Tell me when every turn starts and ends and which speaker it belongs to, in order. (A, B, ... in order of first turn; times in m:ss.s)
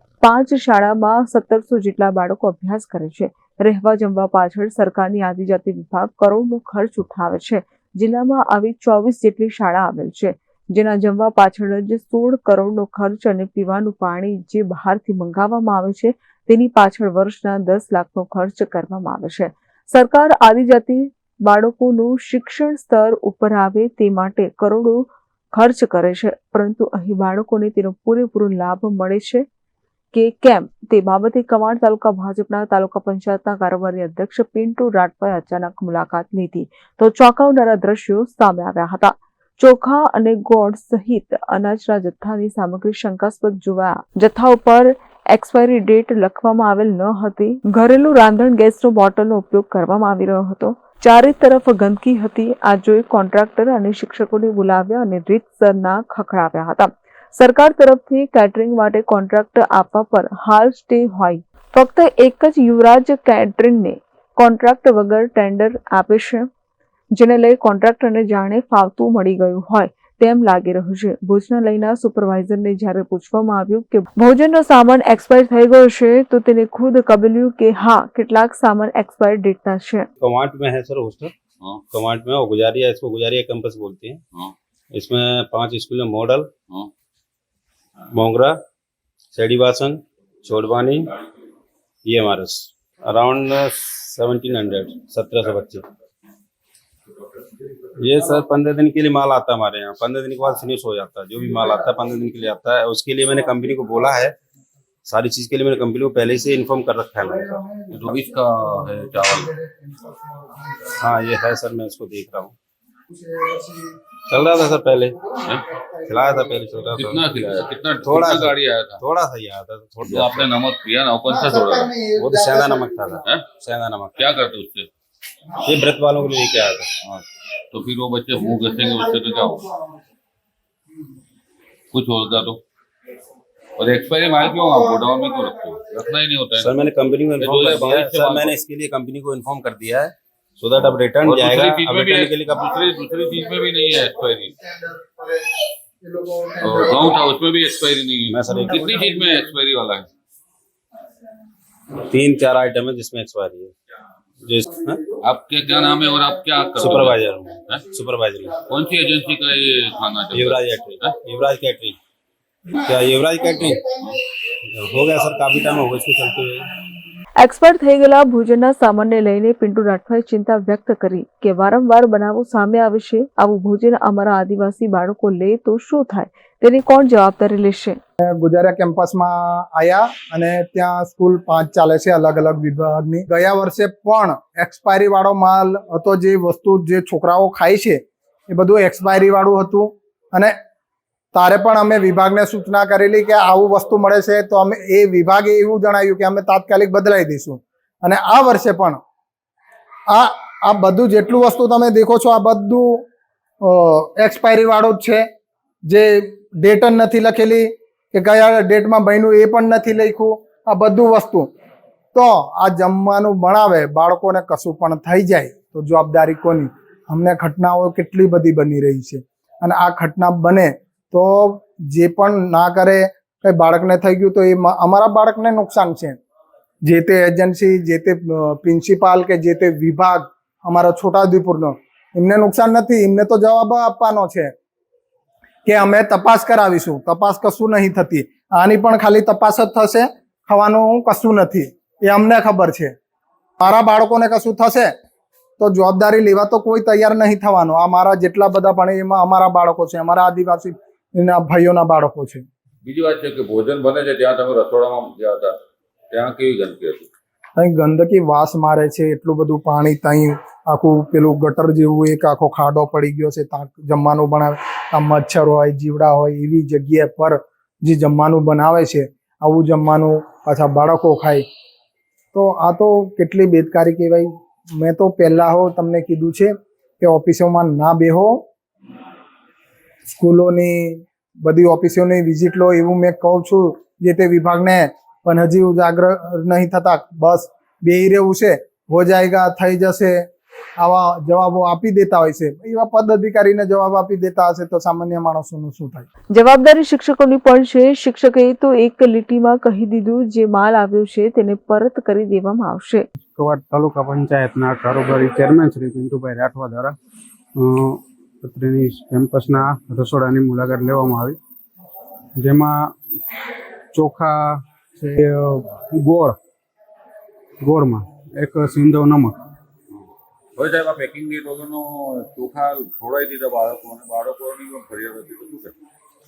0:00.2-0:29.4 A
0:30.1-1:06.5 A
1:07.1-1:20.1 A
1:20.2-1:21.3 B
1:21.9-1:24.2 B
1:24.9-1:26.5 B
1:28.1-1:28.6 B
1:29.3-1:31.1 B
1:32.0-1:35.9 B
1:38.0-1:44.3 B
1:45.0-1:47.6 B
1:47.9-1:49.5 C
1:49.4-1:50.9 D
1:51.0-1:52.5 B
1:53.1-1:54.0 D
1:54.3-1:55.2 B
1:55.2-1:56.6 D
1:56.1-2:00.5 B
1:56.9-1:59.0 C
2:00.0-2:01.9 C
2:01.3-2:03.2 D
2:02.2-2:04.2 B
2:04.2-2:04.9 C
2:05.6-2:06.9 B
2:07.0-2:09.7 C
2:11.9-2:12.6 C
2:13.8-2:16.7 C
2:16.6-2:22.8 B
2:17.4-2:18.6 C
2:21.2-2:24.5 C
2:24.7-2:27.1 D
2:26.6-2:30.1 C
2:28.3-2:29.0 B
2:32.0-2:33.7 B
2:34.4-2:35.0 B
2:35.2-2:37.9 C
2:36.8-2:38.6 B
2:38.6-2:41.2 C
2:40.3-2:42.0 B
2:42.8-2:44.0 B
2:44.6-2:46.7 B
2:47.4-2:58.0 A
2:58.2-3:10.6 D
3:11.3-3:19.0 D
3:20.1-3:23.0 D
3:23.6-3:25.3 D
3:25.9-3:31.5 D
3:32.1-3:46.2 D
3:46.8-3:54.5 D
3:55.6-4:02.9 D
4:03.6-4:04.9 D
4:05.6-4:12.4 D
4:12.8-4:15.6 C
4:16.1-4:17.1 C
4:17.6-4:31.4 D
4:32.3-4:38.4 D
4:40.1-4:50.3 D
4:50.8-4:56.0 D
4:56.3-5:03.0 A
5:03.2-5:07.0 E
5:07.5-5:11.4 E
5:12.3-5:12.9 E
5:13.9-5:16.4 E
5:17.6-5:19.4 E
5:20.6-5:25.7 C